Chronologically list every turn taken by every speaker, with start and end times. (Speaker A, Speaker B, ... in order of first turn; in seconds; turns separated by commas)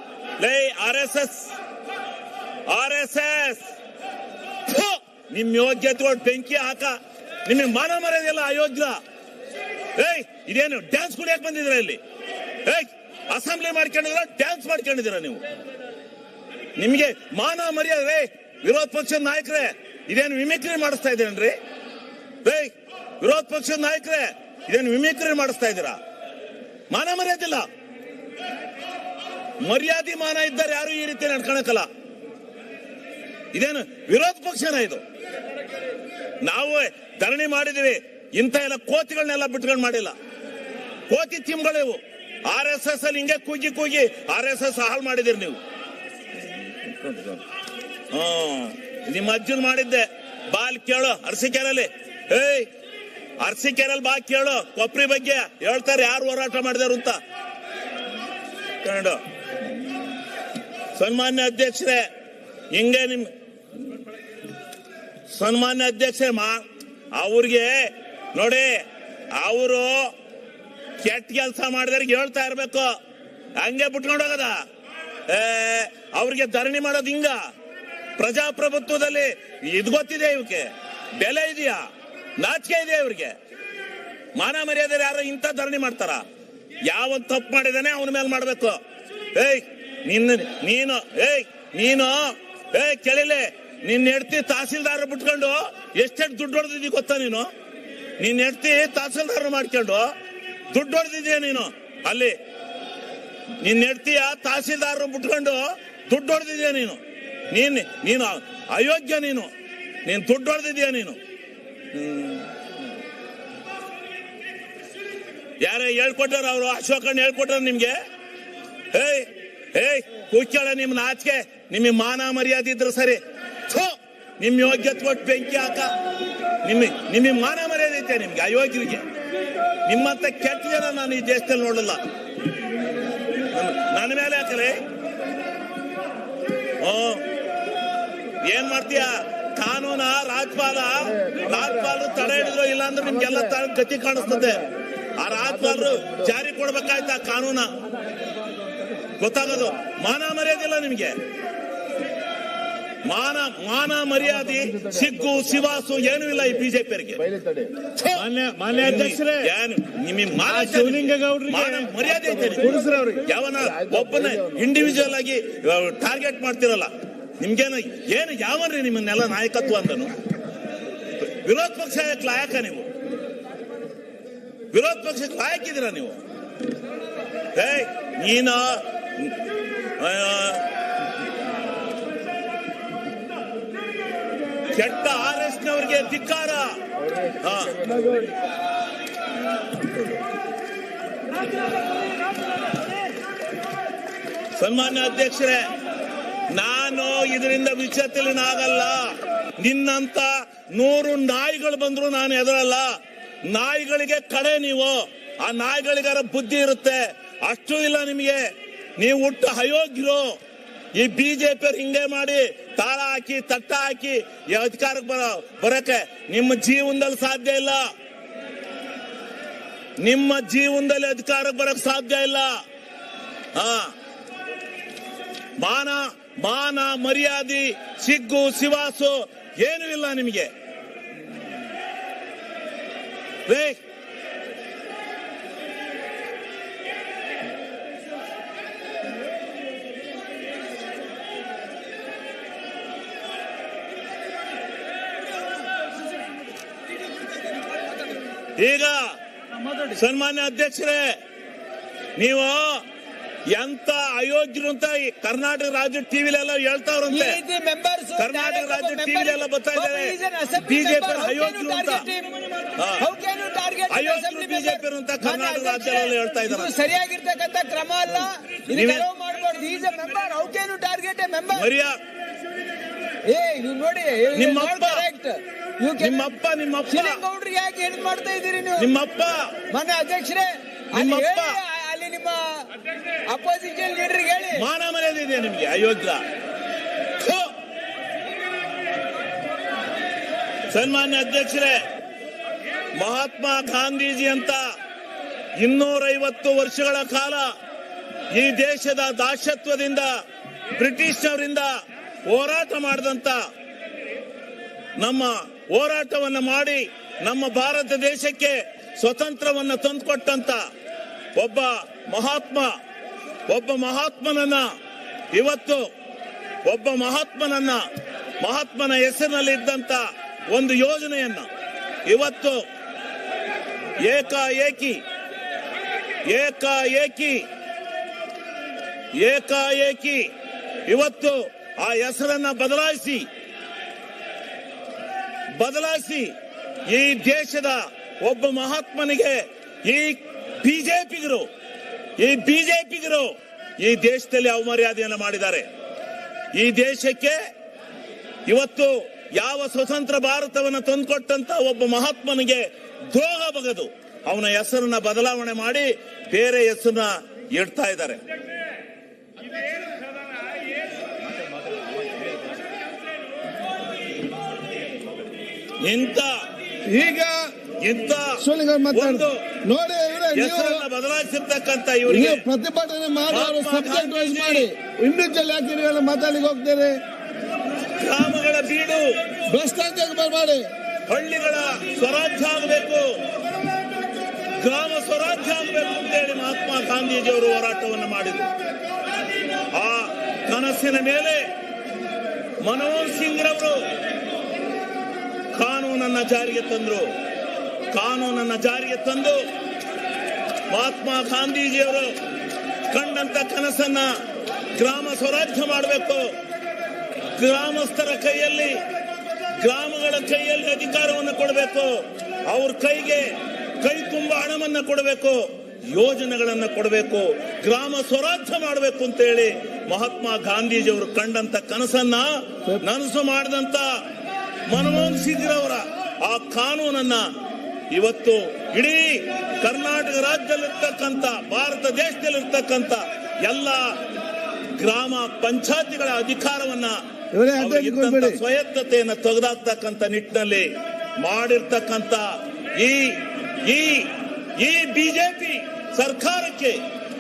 Speaker A: 0.4-1.5, Speaker A: 2.7-3.6, Speaker A: 4.7-9.0, Speaker A: 10.0-12.0, Speaker A: 12.7-15.4, Speaker A: 16.8-21.6, Speaker A: 22.4-26.0, Speaker A: 26.9-27.6, Speaker A: 29.6-31.9, Speaker A: 33.5-35.0, Speaker A: 36.4-40.1, Speaker A: 41.1-45.6, Speaker A: 46.5-47.4, Speaker A: 48.1-52.7, Speaker A: 53.4-57.2, Speaker A: 58.8-59.2, Speaker A: 61.0-62.0, Speaker A: 62.7-63.3, Speaker A: 65.3-66.6, Speaker A: 67.2-68.7, Speaker A: 69.4-70.1, Speaker A: 71.0-72.9, Speaker A: 73.6-74.5, Speaker A: 75.3-77.4, Speaker A: 78.2-81.8, Speaker A: 82.4-83.3, Speaker A: 84.4-86.2, Speaker A: 86.9-88.8, Speaker A: 89.3-97.5, Speaker A: 98.2-100.1, Speaker A: 100.7-102.3, Speaker A: 103.6-109.5, Speaker A: 110.0-111.2, Speaker A: 111.9-112.5, Speaker A: 115.6-118.0, Speaker A: 118.9-125.9, Speaker A: 126.6-129.0, Speaker A: 129.8-132.0, Speaker A: 133.5-134.8, Speaker A: 136.8-137.2, Speaker A: 138.4-144.6, Speaker A: 145.2-147.7, Speaker A: 149.2-151.2, Speaker A: 153.1-157.4, Speaker B: 158.2-159.4, Speaker A: 158.7-170.1, Speaker B: 160.6-162.0, Speaker B: 162.7-163.2, Speaker A: 171.2-172.9, Speaker A: 174.7-176.2, Speaker A: 177.5-179.3, Speaker A: 180.0-180.6, Speaker A: 184.7-186.8, Speaker A: 187.4-187.8, Speaker A: 194.6-195.6, Speaker A: 196.5-202.9, Speaker A: 203.5-208.4, Speaker A: 209.0-210.3, Speaker A: 210.9-217.8, Speaker A: 220.0-222.5, Speaker A: 223.6-223.9, Speaker A: 225.6-230.5, Speaker A: 233.5-233.8, Speaker A: 248.6-249.0, Speaker A: 249.9-251.1, Speaker A: 252.2-252.8, Speaker A: 253.5-257.4, Speaker C: 257.1-271.7, Speaker A: 258.2-262.1, Speaker A: 263.9-266.7, Speaker A: 268.7-269.0, Speaker A: 271.5-271.9, Speaker C: 273.2-276.3, Speaker A: 274.3-275.0, Speaker A: 276.0-277.2, Speaker C: 276.9-278.9, Speaker A: 278.8-279.5, Speaker C: 279.7-282.7, Speaker A: 280.9-281.6, Speaker C: 283.3-284.6, Speaker A: 284.5-286.2, Speaker A: 287.2-287.5, Speaker A: 290.7-291.8, Speaker A: 293.0-294.6, Speaker A: 295.6-297.5, Speaker A: 298.3-300.1, Speaker A: 300.8-301.7, Speaker A: 302.3-303.4, Speaker A: 305.0-310.6, Speaker A: 311.3-312.7, Speaker A: 313.5-314.6, Speaker A: 315.3-315.9, Speaker A: 316.6-317.8, Speaker A: 318.4-321.5, Speaker A: 322.1-322.6, Speaker A: 323.9-325.0, Speaker A: 326.2-327.4, Speaker A: 329.2-330.3, Speaker A: 330.9-333.3, Speaker A: 335.6-336.3, Speaker A: 336.9-341.5, Speaker A: 342.2-345.7, Speaker A: 346.5-347.4, Speaker A: 348.5-358.2, Speaker A: 365.8-366.3, Speaker D: 366.9-367.5, Speaker A: 367.8-368.4, Speaker D: 368.4-370.8, Speaker A: 368.9-369.4, Speaker A: 370.3-372.4, Speaker D: 372.1-377.0, Speaker A: 373.3-374.7, Speaker A: 377.9-379.1, Speaker D: 379.5-380.7, Speaker A: 381.1-383.1, Speaker A: 384.6-388.5, Speaker A: 389.7-391.4, Speaker A: 392.6-393.8, Speaker A: 395.5-397.1, Speaker A: 397.9-399.4, Speaker A: 400.7-402.1, Speaker A: 402.9-404.1, Speaker A: 404.8-406.3, Speaker A: 407.4-408.8, Speaker A: 409.6-411.9, Speaker A: 412.5-413.3, Speaker A: 413.8-423.9, Speaker A: 424.7-427.3, Speaker A: 427.9-433.9, Speaker A: 434.8-437.0, Speaker D: 437.3-438.4, Speaker A: 437.5-446.8